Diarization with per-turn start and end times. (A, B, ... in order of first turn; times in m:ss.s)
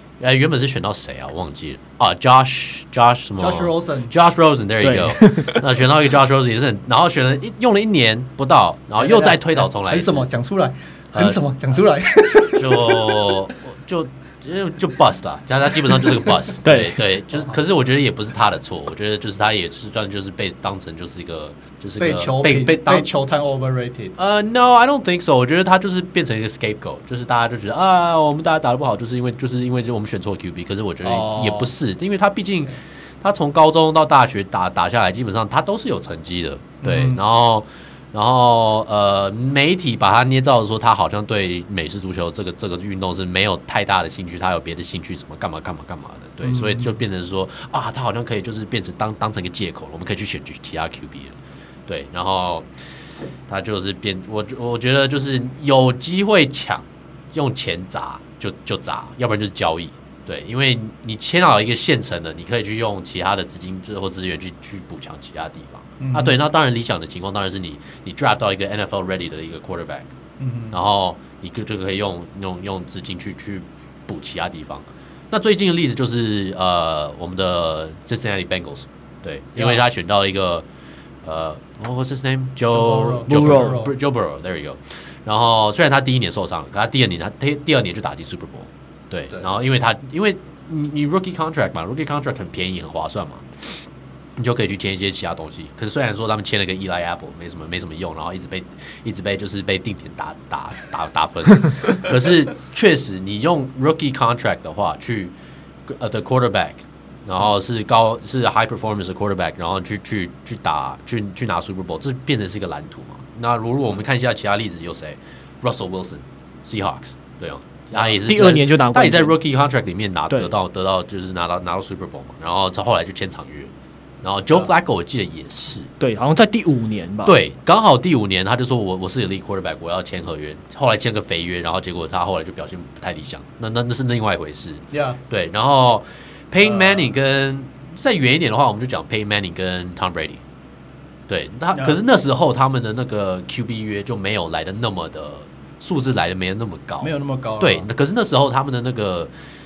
0:00.2-0:10.3 A
0:03.4-0:04.1 B
0:04.8-0:05.6 C
0:09.0-0:13.4 B
0:11.1-0:11.4 A
0:12.5-0:23.1 A
0:16.6-0:17.0 C
0:22.0-0:24.1 B
0:24.2-0:51.4 A
0:31.0-0:31.7 B
0:36.8-0:37.2 B
0:46.4-0:47.0 B
0:51.9-0:52.7 A
0:53.5-1:10.1 A
1:06.0-1:06.4 B
1:10.4-1:10.8 B
1:10.7-1:20.6 A
1:19.5-1:19.8 B
1:21.2-1:33.4 A
1:22.7-1:23.9 B
1:23.3-1:23.7 C
1:34.4-1:45.3 A
1:45.9-2:03.7 A
1:58.1-1:59.3 C
2:04.2-2:05.9 A
2:06.0-2:07.4 C
2:07.2-2:20.4 A
2:14.9-2:15.2 B
2:16.6-2:17.1 B
2:21.3-2:29.3 A
2:21.7-2:22.0 B
2:27.0-2:27.9 B